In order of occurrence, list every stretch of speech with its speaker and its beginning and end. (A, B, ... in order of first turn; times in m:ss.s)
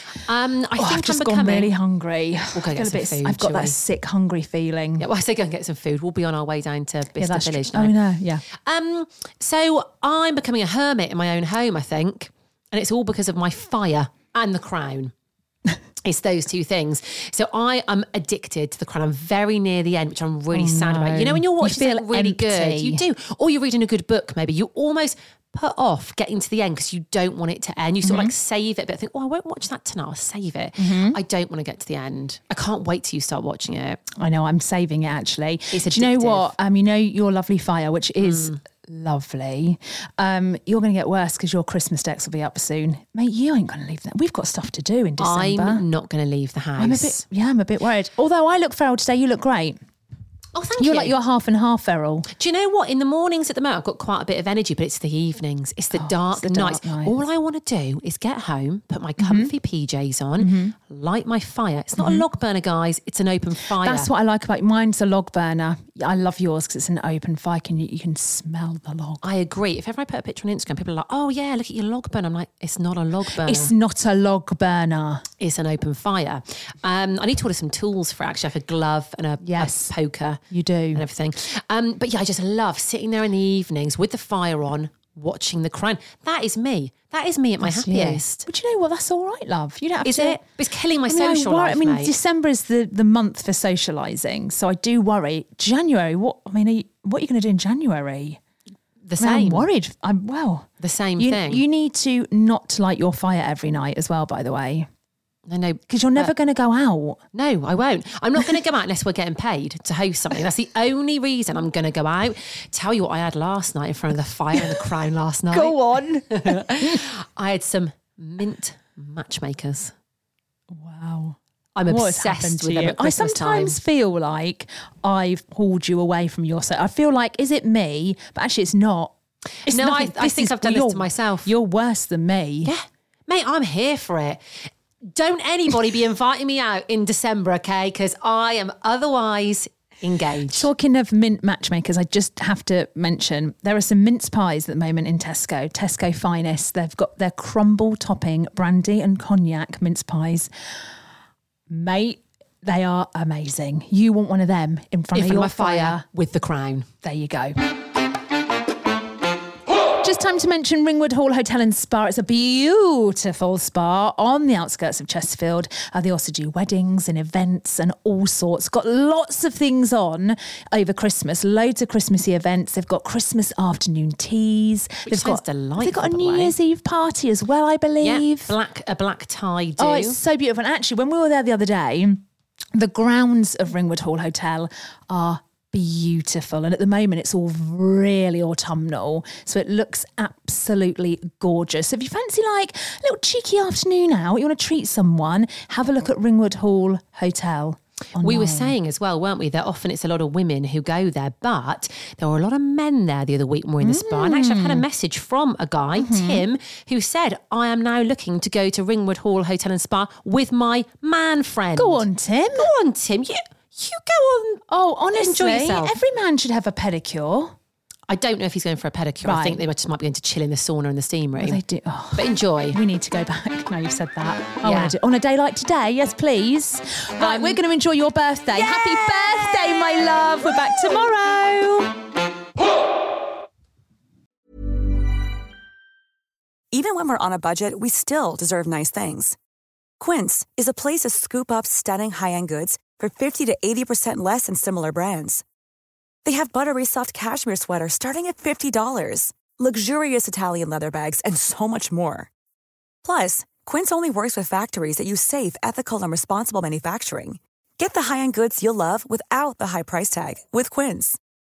0:00.2-0:01.7 A
0:00.7-0:05.1 B
0:02.5-0:03.8 A
0:05.0-0:07.9 A
0:07.2-0:08.4 B
0:08.6-0:15.1 A
0:16.0-0:34.0 A
0:20.5-0:23.0 B
0:28.0-0:28.3 B
0:30.8-0:31.2 B
0:34.2-0:45.8 B
0:35.7-0:36.5 A
0:45.2-0:47.2 A
0:46.8-0:49.8 B
0:50.5-0:51.2 A
0:50.8-0:52.3 B
0:52.3-1:04.1 A
0:55.9-0:57.2 B
0:59.2-0:59.5 B
1:00.4-1:00.7 B
1:02.0-1:02.3 B
1:03.7-1:09.2 B
1:09.2-1:13.7 A
1:13.3-1:15.3 B
1:15.4-1:20.4 A
1:19.4-1:19.9 B
1:20.5-1:21.0 B
1:20.9-1:28.4 A
1:27.6-1:30.4 B
1:30.0-1:32.1 A
1:31.0-1:38.4 B
1:39.0-1:39.7 A
1:39.2-1:40.7 B
1:40.8-1:41.6 A
1:41.2-1:44.9 B
1:45.5-1:46.3 A
1:45.9-1:47.2 B
1:47.3-1:55.8 A
1:54.5-1:54.9 B
1:55.5-1:57.0 B
1:56.3-1:59.9 A
2:00.7-2:09.1 B
2:01.7-2:03.8 A
2:09.6-2:12.7 B
2:09.7-2:11.5 A
2:12.6-2:14.4 A
2:15.0-2:20.7 A
2:20.3-2:30.5 B
2:31.7-2:36.1 B
2:35.1-2:36.9 A
2:37.0-2:37.5 B
2:40.0-2:58.6 B
2:55.0-2:56.5 A
2:58.0-3:00.2 A
2:59.8-3:02.2 B
3:02.7-3:18.8 B
3:18.2-3:36.0 A
3:23.8-3:24.8 B
3:25.9-3:26.5 B
3:31.7-3:32.7 B
3:34.7-3:37.5 B
3:38.1-3:41.6 A
3:39.2-3:39.6 B
3:41.3-3:51.9 B
3:42.1-3:42.8 A
3:44.6-3:45.0 A
3:47.2-3:47.6 A
3:56.7-3:59.4 C
4:00.0-4:05.4 C
4:06.2-4:12.3 C
4:13.0-4:21.2 C